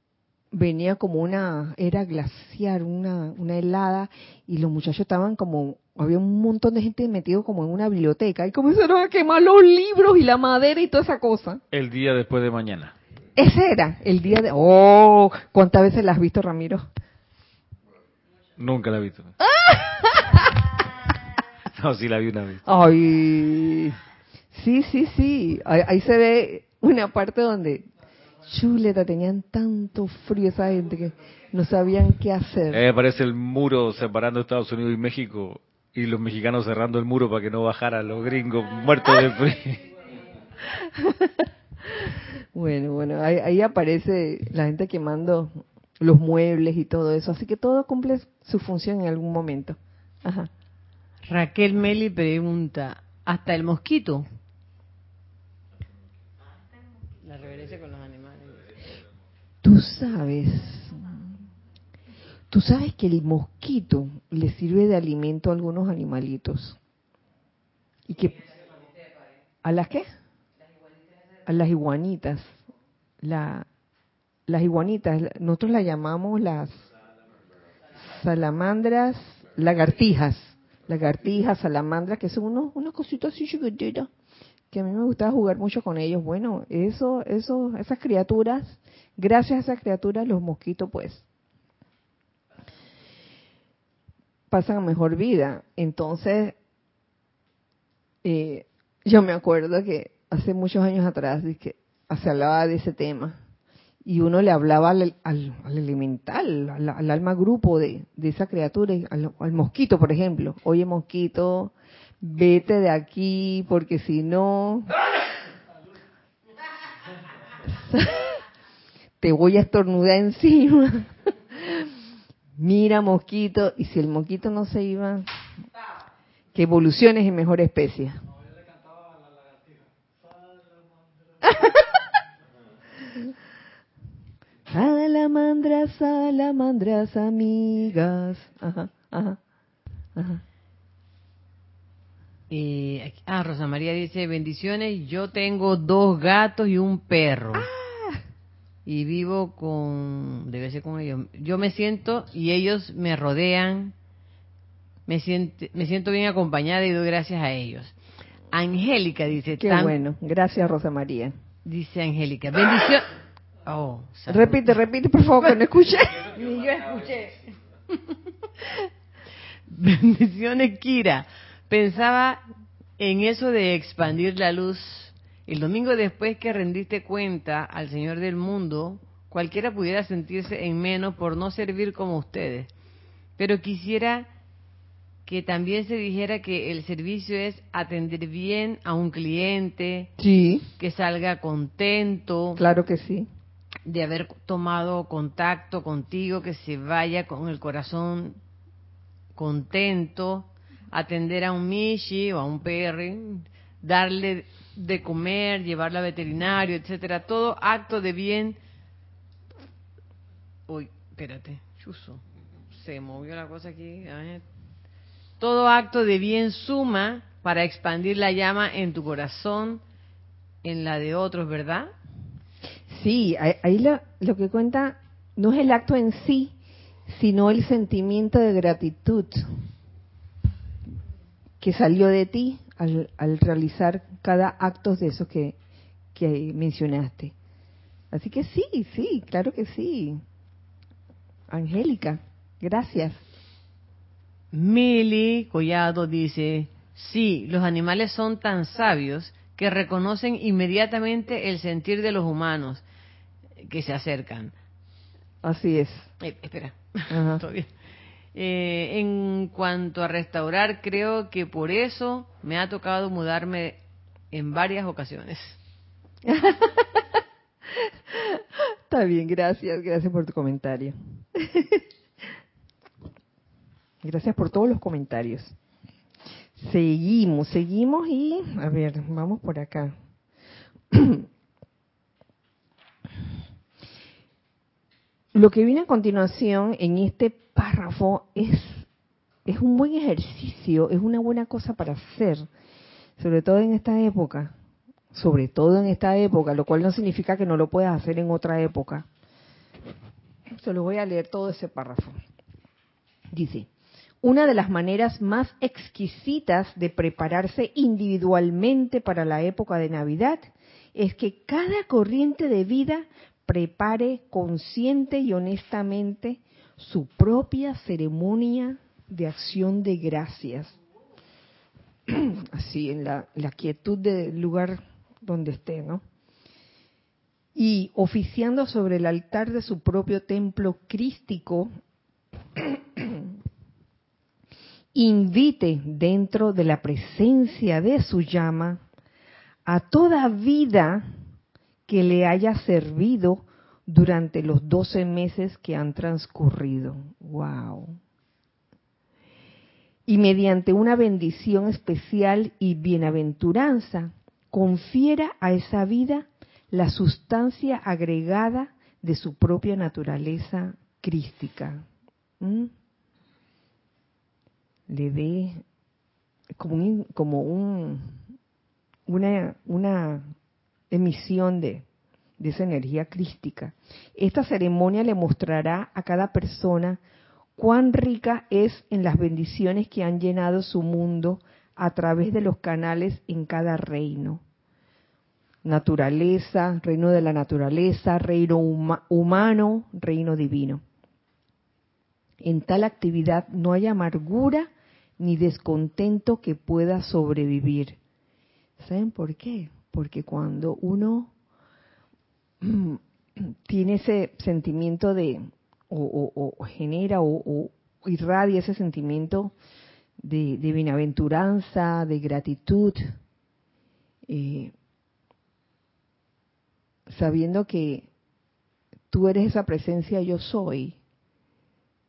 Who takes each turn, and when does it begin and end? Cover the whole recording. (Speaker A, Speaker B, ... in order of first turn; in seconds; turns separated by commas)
Speaker A: 0.5-11.6, Speaker B: 11.7-12.9, Speaker A: 13.4-16.9, Speaker B: 18.6-19.4, Speaker A: 19.4-20.5, Speaker B: 21.8-22.6, Speaker A: 22.6-24.0, Speaker A: 24.5-27.9, Speaker A: 28.4-32.8, Speaker B: 32.7-39.9, Speaker A: 40.6-50.5, Speaker C: 51.3-54.3, Speaker C: 57.2-58.7, Speaker A: 59.6-61.2, Speaker A: 62.5-66.8, Speaker A: 68.1-68.5, Speaker A: 69.6-70.1, Speaker A: 71.5-72.6, Speaker A: 73.2-73.7, Speaker A: 74.5-76.8, Speaker A: 78.0-84.1, Speaker A: 84.7-91.2, Speaker A: 94.5-96.5, Speaker A: 98.2-103.4, Speaker A: 104.0-114.9, Speaker A: 117.7-118.4, Speaker A: 119.2-122.0, Speaker A: 122.6-125.3, Speaker A: 126.5-128.2, Speaker A: 131.4-131.8, Speaker A: 134.7-139.4, Speaker A: 140.2-140.4, Speaker C: 142.5-147.7, Speaker A: 147.6-148.2, Speaker C: 148.9-153.9, Speaker C: 155.1-157.9, Speaker C: 158.5-160.0, Speaker A: 159.6-161.3, Speaker C: 161.7-163.1, Speaker C: 163.7-164.8, Speaker A: 164.3-166.3, Speaker C: 166.3-167.5, Speaker C: 169.7-172.4, Speaker C: 173.0-182.7, Speaker C: 183.4-184.3, Speaker C: 185.3-190.1, Speaker A: 190.2-190.7, Speaker C: 190.8-192.6, Speaker A: 192.6-193.3, Speaker C: 193.9-198.4, Speaker C: 199.3-208.6, Speaker C: 210.7-214.4, Speaker C: 215.4-219.8, Speaker C: 220.6-221.9, Speaker A: 222.9-226.6, Speaker A: 227.1-229.4, Speaker A: 231.6-235.6, Speaker A: 236.1-237.3, Speaker A: 238.1-240.2, Speaker A: 241.5-243.2, Speaker C: 244.5-252.8, Speaker C: 253.6-254.5, Speaker A: 255.4-256.1, Speaker C: 256.2-257.7, Speaker A: 257.1-257.4, Speaker C: 258.3-263.8, Speaker C: 264.3-265.6, Speaker A: 266.2-267.0, Speaker A: 267.7-271.8, Speaker A: 274.0-275.5, Speaker A: 276.6-279.9, Speaker A: 280.9-281.3, Speaker A: 285.3-288.9, Speaker A: 289.5-292.5, Speaker A: 293.2-294.5, Speaker A: 295.1-299.1, Speaker A: 300.5-302.2, Speaker A: 303.3-303.7, Speaker A: 304.2-320.8, Speaker A: 322.1-326.0, Speaker A: 327.6-331.7, Speaker A: 332.6-333.4, Speaker A: 334.9-338.8, Speaker A: 339.6-341.1, Speaker A: 341.9-348.0, Speaker A: 350.1-361.9, Speaker A: 362.4-362.7, Speaker A: 364.9-365.6, Speaker A: 366.6-368.2, Speaker A: 369.1-370.3, Speaker A: 370.9-371.9, Speaker A: 372.4-377.0, Speaker A: 377.6-384.4, Speaker A: 385.6-390.8, Speaker A: 392.4-398.0, Speaker A: 398.8-401.3, Speaker A: 402.6-409.5, Speaker A: 410.2-413.0, Speaker A: 414.3-414.7, Speaker A: 417.1-418.1, Speaker A: 419.1-421.0